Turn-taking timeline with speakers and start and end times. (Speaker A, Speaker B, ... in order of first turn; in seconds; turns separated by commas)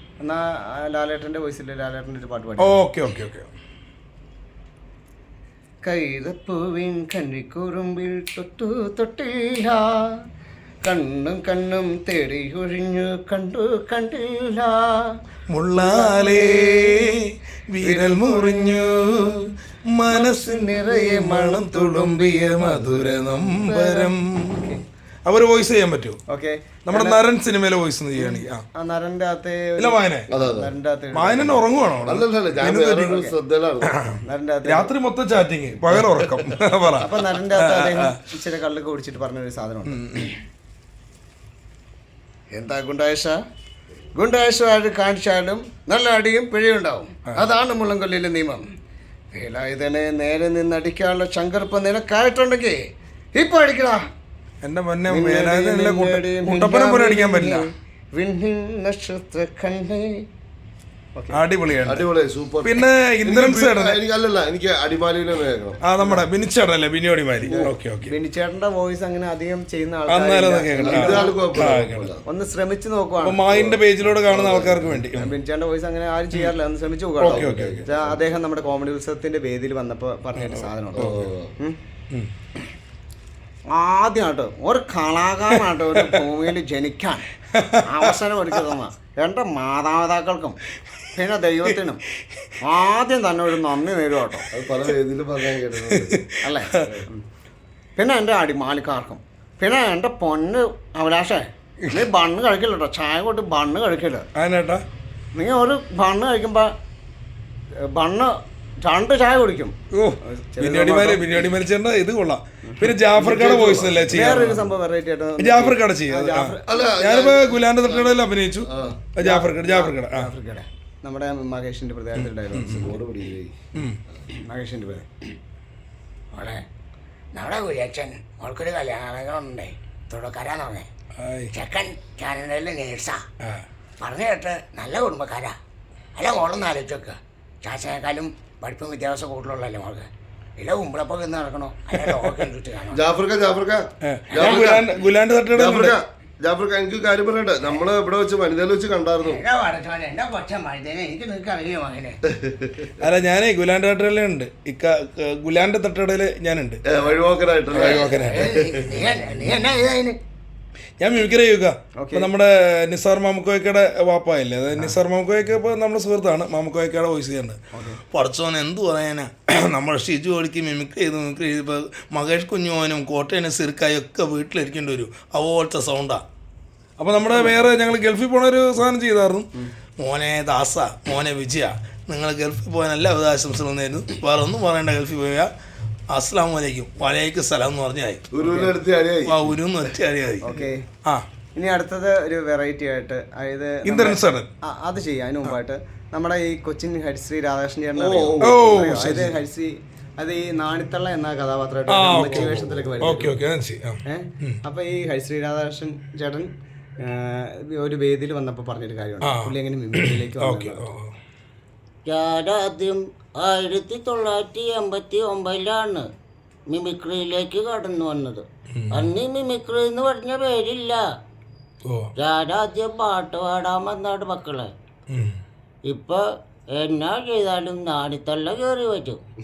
Speaker A: 0.2-2.8, Speaker B: 2.6-3.5, Speaker A: 5.8-10.1, Speaker A: 10.8-14.9, Speaker B: 15.5-24.6, Speaker A: 15.8-17.2, Speaker A: 17.8-19.2, Speaker A: 20.1-24.8, Speaker B: 25.2-26.2, Speaker A: 26.3-27.2, Speaker B: 26.9-28.6, Speaker A: 28.1-31.7, Speaker B: 29.8-30.2, Speaker C: 30.3-30.7, Speaker B: 31.2-33.1, Speaker C: 32.0-34.0, Speaker A: 33.0-33.3, Speaker B: 33.8-34.2, Speaker A: 34.2-34.9, Speaker B: 34.7-37.0, Speaker C: 36.0-36.4, Speaker A: 37.0-40.3, Speaker B: 37.6-38.2, Speaker B: 39.9-40.2, Speaker A: 42.5-43.4, Speaker A: 44.1-48.6, Speaker A: 49.3-52.8, Speaker A: 53.4-54.0, Speaker B: 54.6-57.7, Speaker A: 55.1-60.2, Speaker B: 61.4-62.0, Speaker C: 61.9-65.8, Speaker B: 62.6-64.0, Speaker B: 65.8-68.1, Speaker A: 67.4-71.7, Speaker B: 70.1-72.1, Speaker C: 70.8-72.2, Speaker A: 72.2-73.4, Speaker B: 73.2-75.3, Speaker C: 73.5-75.1, Speaker A: 75.1-81.8, Speaker C: 77.2-78.2, Speaker B: 77.3-77.8, Speaker B: 80.4-80.7, Speaker C: 80.9-81.5, Speaker A: 83.7-87.3, Speaker B: 87.5-88.1, Speaker A: 87.8-90.6, Speaker A: 91.1-92.0, Speaker A: 92.6-94.5, Speaker C: 94.5-96.2, Speaker B: 96.2-96.9, Speaker A: 96.4-97.2, Speaker A: 98.0-104.3, Speaker B: 104.3-104.8, Speaker A: 105.3-106.7, Speaker A: 107.9-111.4, Speaker B: 109.9-114.6, Speaker C: 113.1-114.6, Speaker A: 114.1-116.7, Speaker B: 115.4-120.3, Speaker C: 116.7-119.0, Speaker A: 119.2-123.0, Speaker B: 122.5-122.9, Speaker C: 122.7-123.7, Speaker B: 123.7-124.0, Speaker A: 124.4-125.1, Speaker D: 126.3-126.6, Speaker D: 127.3-130.9, Speaker B: 131.2-131.5, Speaker D: 131.5-133.2, Speaker D: 134.0-135.6, Speaker D: 136.2-140.1, Speaker D: 140.6-142.9, Speaker B: 142.0-142.3, Speaker A: 142.0-142.5, Speaker C: 142.9-144.9, Speaker B: 144.0-145.9, Speaker C: 145.5-149.4, Speaker D: 149.4-152.2, Speaker C: 152.3-152.9, Speaker B: 153.0-156.8, Speaker C: 156.9-159.1, Speaker D: 157.7-160.2, Speaker B: 157.8-158.5, Speaker A: 158.6-158.9, Speaker B: 161.0-167.6, Speaker A: 162.0-162.3, Speaker A: 167.7-168.0, Speaker B: 168.1-176.2, Speaker B: 177.0-179.4, Speaker B: 180.0-185.5, Speaker B: 186.1-188.2, Speaker C: 188.3-189.5, Speaker A: 188.4-188.7, Speaker B: 189.3-190.4, Speaker A: 190.4-190.8, Speaker A: 191.5-203.4, Speaker B: 193.8-194.5, Speaker C: 198.0-198.9, Speaker B: 198.4-199.3, Speaker B: 201.9-202.5, Speaker C: 202.1-203.0, Speaker B: 203.0-204.6, Speaker A: 204.1-206.5, Speaker A: 207.0-210.9, Speaker B: 209.2-211.1, Speaker D: 212.1-216.1, Speaker D: 216.7-221.0, Speaker B: 218.7-219.0, Speaker B: 221.8-222.1, Speaker D: 222.2-224.7, Speaker B: 225.1-225.3, Speaker D: 225.8-229.2